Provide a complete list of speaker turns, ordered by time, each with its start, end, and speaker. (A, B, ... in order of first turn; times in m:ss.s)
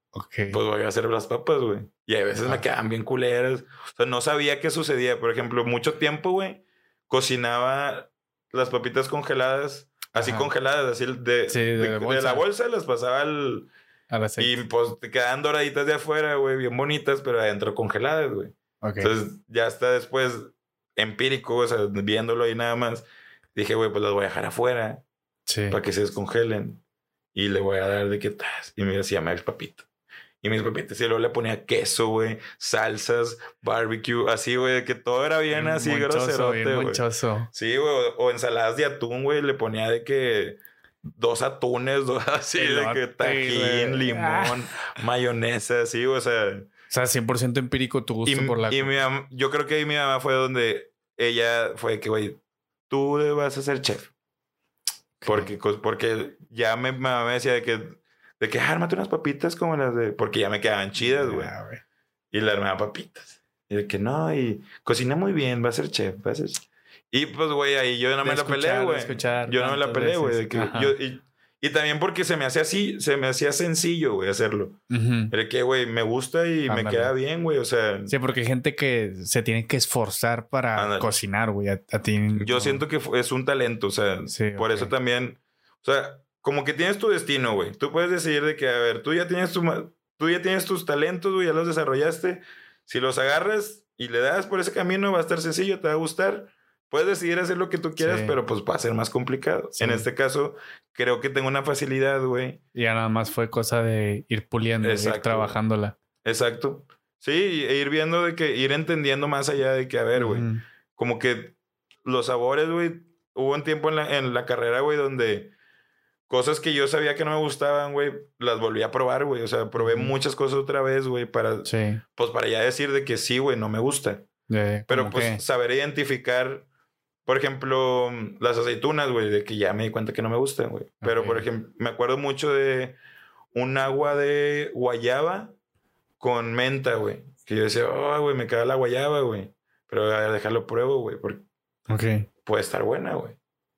0:00.1-0:00.6 A
0:00.5-0:13.7 B
0:10.1-0:10.5 A
0:11.5-0:12.4 A
0:14.1-0:14.6 A
0:14.4-0:25.0 B
0:18.8-0:19.1 A
0:25.5-0:25.8 A
0:25.7-0:26.8 B
0:27.3-0:29.8 B
0:30.4-0:37.0 B
0:35.5-0:37.5 A
0:37.5-0:46.7 B
0:42.6-0:44.7 A
0:46.9-0:48.9 A
0:48.3-0:54.1 B
0:55.2-0:55.5 A
0:55.3-1:01.5 B
1:01.0-1:01.8 A
1:02.3-1:14.8 B
1:08.2-1:11.0 A
1:14.9-1:15.3 A
1:15.3-1:18.1 B
1:16.7-1:17.1 A
1:18.1-1:22.8 A
1:20.8-1:21.2 B
1:22.4-1:42.6 B
1:24.3-1:24.9 A
1:38.0-1:38.4 A
1:39.8-1:40.1 A
1:42.8-1:46.0 A
1:44.8-1:45.6 B
1:46.2-1:55.5 B
1:50.2-1:50.6 A
1:56.3-2:04.3 B
1:59.8-2:00.1 A
2:01.6-2:02.0 A
2:04.5-2:05.4 A
2:04.9-2:06.7 B
2:07.3-2:13.0 B
2:11.0-2:11.4 A
2:13.5-2:15.5 B
2:16.2-2:21.4 B
2:21.9-2:22.3 A
2:22.4-2:23.4 B